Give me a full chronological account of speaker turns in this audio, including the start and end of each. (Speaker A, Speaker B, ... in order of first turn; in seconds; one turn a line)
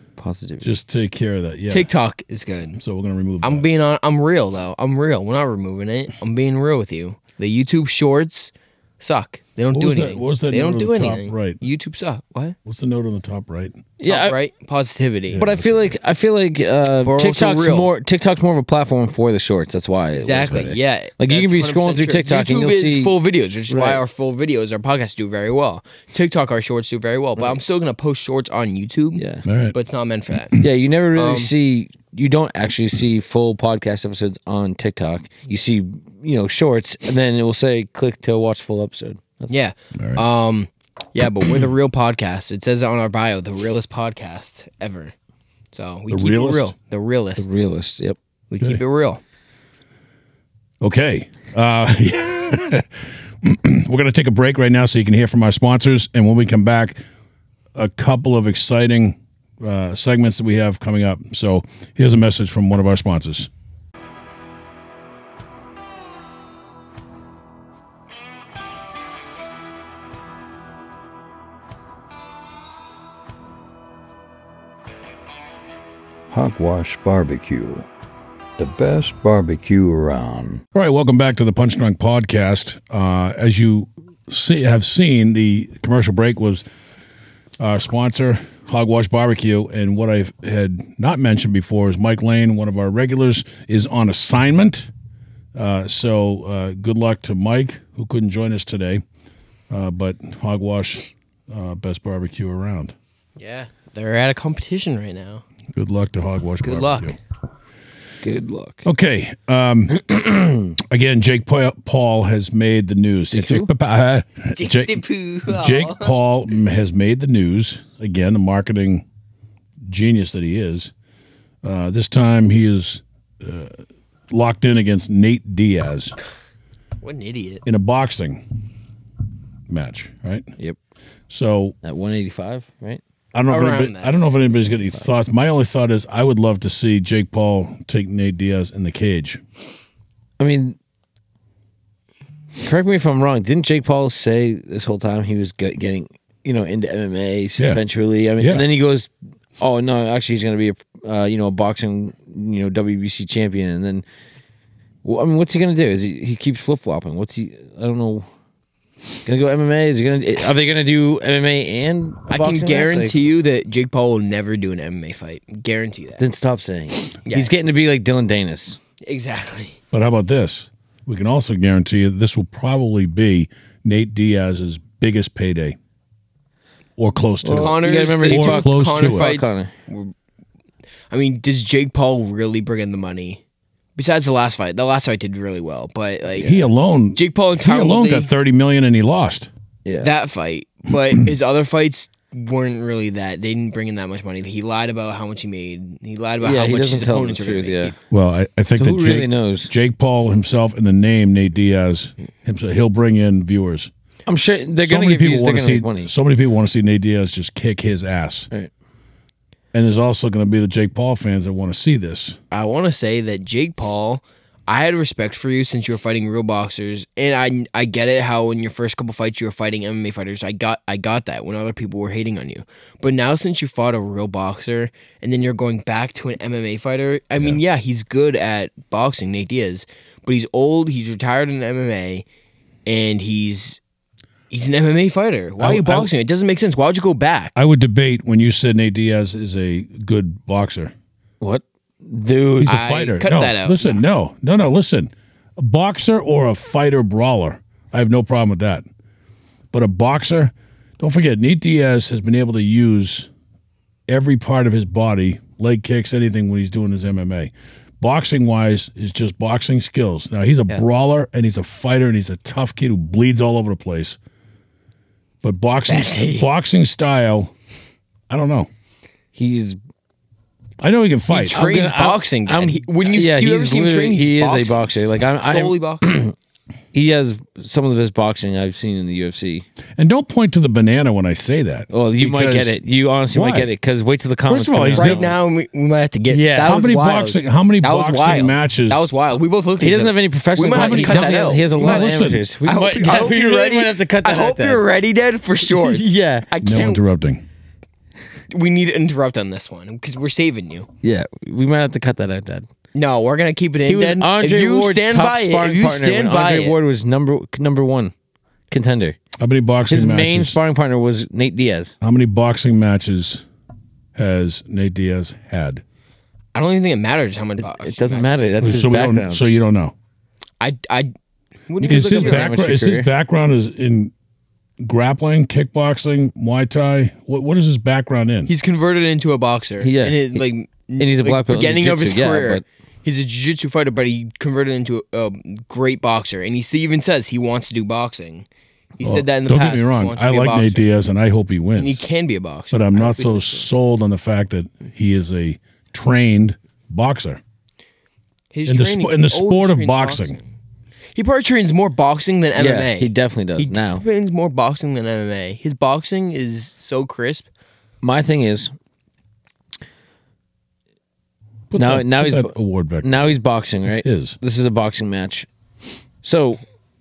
Speaker A: 0.2-0.7
Speaker B: 0.6-1.9
Speaker C: 1.7-2.8
Speaker B: 2.8-3.7
Speaker C: 3.4-12.6
Speaker B: 9.7-11.6
Speaker B: 12.6-13.8
Speaker A: 14.0-14.4
Speaker C: 14.0-15.4
Speaker B: 15.3-15.8
Speaker A: 15.4-23.1
Speaker C: 17.0-17.9
Speaker C: 20.2-30.6
Speaker A: 23.7-24.0
Speaker A: 29.2-29.4
Speaker B: 29.4-29.7
Speaker A: 30.6-39.5
Speaker C: 31.1-31.5
Speaker C: 39.5-45.1
Speaker B: 40.0-40.2
Speaker C: 45.7-47.5
Speaker B: 46.1-46.7
Speaker A: 47.4-48.2
Speaker C: 48.5-49.2
Speaker B: 50.8-57.0
Speaker B: 57.7-63.5
Speaker D: 76.3-77.9
Speaker D: 78.6-80.6
Speaker B: 80.7-86.6
Speaker B: 87.6-94.9
Speaker B: 95.5-99.0
Speaker B: 99.7-102.9
Speaker C: 103.4-105.4
Speaker B: 105.7-107.2
Speaker C: 106.6-107.2
Speaker A: 108.2-108.8
Speaker B: 108.8-119.0
Speaker A: 113.3-113.7
Speaker C: 114.5-116.1
Speaker B: 119.8-120.9
Speaker B: 121.6-126.2
Speaker C: 127.0-127.6
Speaker B: 127.6-128.4
Speaker B: 129.7-130.5
Speaker B: 131.3-131.7
Speaker A: 131.8-133.0
Speaker B: 133.3-139.4
Speaker C: 133.5-134.2
Speaker A: 140.4-140.8
Speaker A: 142.6-154.0
Speaker B: 148.4-148.6
Speaker A: 155.0-158.3
Speaker A: 159.2-163.1
Speaker C: 162.3-166.2
Speaker A: 166.2-168.8
Speaker C: 167.2-167.5
Speaker C: 169.0-169.8
Speaker B: 169.9-175.8
Speaker B: 177.0-179.3
Speaker A: 177.4-179.7
Speaker C: 177.5-180.1
Speaker C: 181.1-183.4
Speaker C: 183.9-186.6
Speaker B: 186.4-189.5
Speaker C: 187.1-188.3
Speaker A: 189.8-190.1
Speaker C: 190.0-197.9
Speaker A: 196.4-197.9
Speaker B: 198.1-203.9
Speaker A: 198.8-199.7
Speaker A: 204.2-206.1
Speaker B: 204.8-208.5
Speaker B: 209.7-212.4
Speaker C: 212.5-232.2
Speaker C: 232.8-233.8
Speaker C: 234.5-237.5
Speaker B: 235.6-236.1
Speaker B: 237.5-240.9
Speaker A: 241.4-242.8
Speaker B: 242.6-248.8
Speaker C: 242.7-244.0
Speaker B: 249.7-253.3
Speaker B: 254.1-264.2
Speaker B: 265.4-267.5
Speaker C: 265.9-266.5
Speaker B: 268.3-268.7
Speaker A: 269.3-269.8
Speaker B: 270.8-272.2
Speaker C: 271.3-276.1
Speaker A: 271.7-276.3
Speaker A: 276.9-279.6
Speaker B: 280.0-282.7
Speaker A: 281.9-285.3
Speaker B: 283.3-283.7
Speaker B: 284.5-285.3
Speaker C: 284.9-297.0
Speaker A: 286.3-286.8
Speaker B: 286.6-289.0
Speaker A: 289.8-294.8
Speaker B: 290.7-292.4
Speaker A: 295.7-296.5
Speaker B: 296.6-297.4
Speaker C: 298.5-300.9
Speaker A: 301.0-302.7
Speaker C: 302.9-306.8
Speaker A: 303.9-308.1
Speaker A: 308.7-309.2
Speaker B: 309.4-310.6
Speaker A: 309.9-311.9
Speaker B: 312.0-313.4
Speaker B: 314.1-315.8
Speaker C: 316.5-318.7
Speaker A: 317.6-319.4
Speaker B: 318.6-319.9
Speaker C: 320.6-321.1
Speaker C: 321.7-322.5
Speaker A: 321.8-323.1
Speaker B: 321.8-324.1
Speaker B: 324.8-328.5
Speaker C: 328.5-338.4
Speaker A: 329.8-330.4
Speaker A: 331.0-332.6
Speaker C: 339.0-340.9
Speaker B: 339.0-342.0
Speaker C: 341.8-343.7
Speaker B: 342.7-347.4
Speaker C: 348.5-350.4
Speaker B: 348.6-350.4
Speaker C: 351.1-357.5
Speaker A: 352.6-354.0
Speaker A: 358.0-358.7
Speaker B: 361.7-363.3
Speaker A: 361.7-365.5
Speaker B: 363.8-364.4
Speaker A: 366.2-366.6